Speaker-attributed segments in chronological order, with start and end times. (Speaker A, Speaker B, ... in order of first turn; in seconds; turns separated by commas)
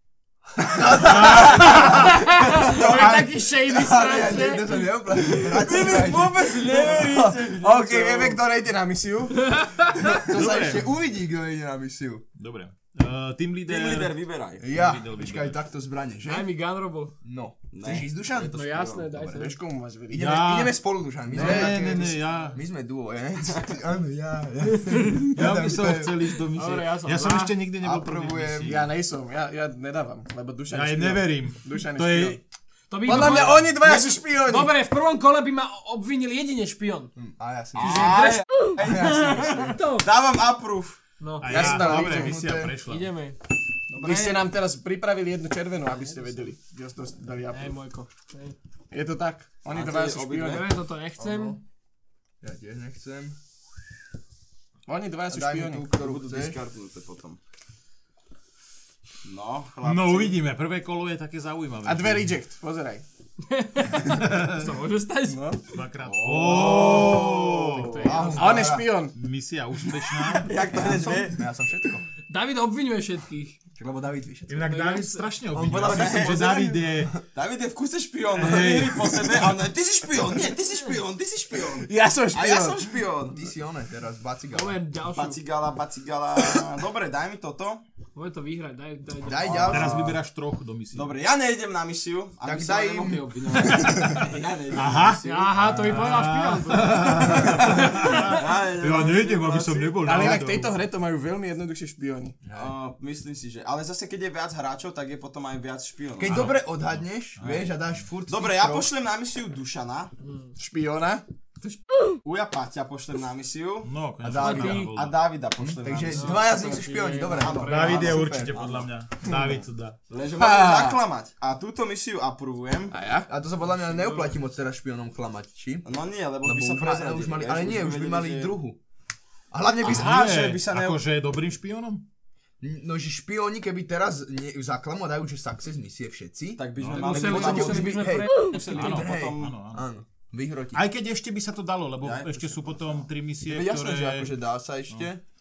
Speaker A: 0.6-7.4, Speaker B: 1.0-2.2, Speaker C: 1.2-5.7, Speaker B: 2.8-3.3, Speaker D: 5.3-8.4, Speaker E: 7.0-9.6, Speaker C: 9.3-10.2, Speaker A: 10.0-12.2, Speaker B: 10.2-10.9, Speaker B: 12.4-15.6, Speaker D: 13.7-14.7, Speaker A: 14.6-16.5, Speaker C: 16.2-17.1, Speaker A: 17.2-18.6, Speaker D: 17.7-19.3, Speaker C: 18.5-19.6, Speaker E: 19.3-20.4, Speaker A: 20.1-26.2, Speaker B: 20.1-22.6, Speaker E: 21.4-21.8, Speaker B: 25.3-28.9, Speaker C: 26.5-27.6, Speaker A: 27.8-28.8, Speaker E: 28.6-32.4, Speaker B: 30.7-32.4, Speaker C: 32.9-37.1, Speaker E: 33.0-34.7, Speaker B: 33.1-33.7, Speaker A: 37.2-38.2, Speaker D: 37.8-41.0, Speaker C: 37.8-40.1, Speaker A: 38.8-39.8, Speaker C: 41.2-41.7, Speaker B: 41.4-43.1, Speaker E: 41.5-42.4, Speaker A: 41.6-42.8, Speaker C: 42.9-44.5, Speaker E: 44.0-47.8, Speaker C: 45.9-46.4, Speaker C: 47.5-48.6, Speaker E: 48.9-50.7, Speaker D: 49.7-50.6, Speaker C: 50.5-51.6, Speaker A: 51.2-51.6, Speaker A: 52.4-53.4, Speaker E: 54.9-55.9, Speaker A: 55.3-56.6, Speaker D: 55.9-57.4, Speaker D: 59.2-60.4, Speaker B: 59.8-62.3, Speaker E: 61.9-63.0, Speaker C: 63.5-65.6, Speaker B: 64.1-64.7, Speaker E: 65.3-65.6, Speaker B: 65.7-68.1, Speaker D: 66.0-68.3, Speaker C: 67.7-68.7, Speaker A: 68.0-68.9, Speaker E: 68.3-69.2, Speaker B: 69.1-70.5, Speaker D: 70.3-71.4, Speaker A: 70.7-72.1, Speaker C: 72.3-73.6, Speaker A: 73.8-74.7, Speaker B: 74.5-77.1, Speaker C: 74.6-75.3, Speaker A: 75.5-77.2, Speaker D: 75.8-76.8, Speaker D: 77.3-83.5, Speaker B: 78.3-79.6, Speaker E: 81.7-82.9, Speaker A: 83.3-84.8, Speaker C: 84.5-85.4, Speaker D: 85.1-87.8, Speaker C: 88.2-89.9, Speaker A: 89.2-90.2, Speaker D: 89.4-90.1, Speaker B: 89.7-91.2, Speaker D: 90.9-95.6, Speaker A: 92.4-94.2, Speaker B: 94.7-100.8, Speaker C: 95.2-98.4, Speaker D: 97.5-100.4, Speaker E: 100.0-102.4, Speaker A: 102.4-102.7, Speaker D: 102.5-106.6, Speaker A: 106.2-108.9, Speaker B: 106.3-107.7, Speaker D: 107.4-107.7, Speaker D: 108.3-110.1, Speaker C: 110.2-110.5, Speaker E: 110.6-111.2, Speaker D: 111.6-113.9, Speaker B: 113.8-115.2, Speaker A: 114.2-114.9, Speaker C: 114.4-114.9, Speaker D: 114.7-116.5, Speaker A: 115.6-118.6, Speaker C: 116.1-118.2, Speaker D: 117.4-118.9, Speaker B: 117.7-120.0, Speaker D: 120.1-123.0, Speaker E: 120.3-121.0, Speaker E: 122.9-123.3, Speaker A: 123.3-125.9, Speaker C: 123.8-124.4, Speaker D: 125.8-128.6, Speaker A: 126.4-128.8, Speaker A: 129.5-130.3, Speaker D: 129.8-131.0, Speaker B: 129.8-132.0, Speaker A: 132.6-140.8, Speaker D: 136.6-139.5, Speaker B: 136.8-137.4, Speaker C: 136.9-139.1, Speaker B: 138.7-139.8, Speaker B: 140.7-144.4, Speaker D: 142.0-143.1, Speaker A: 143.5-145.2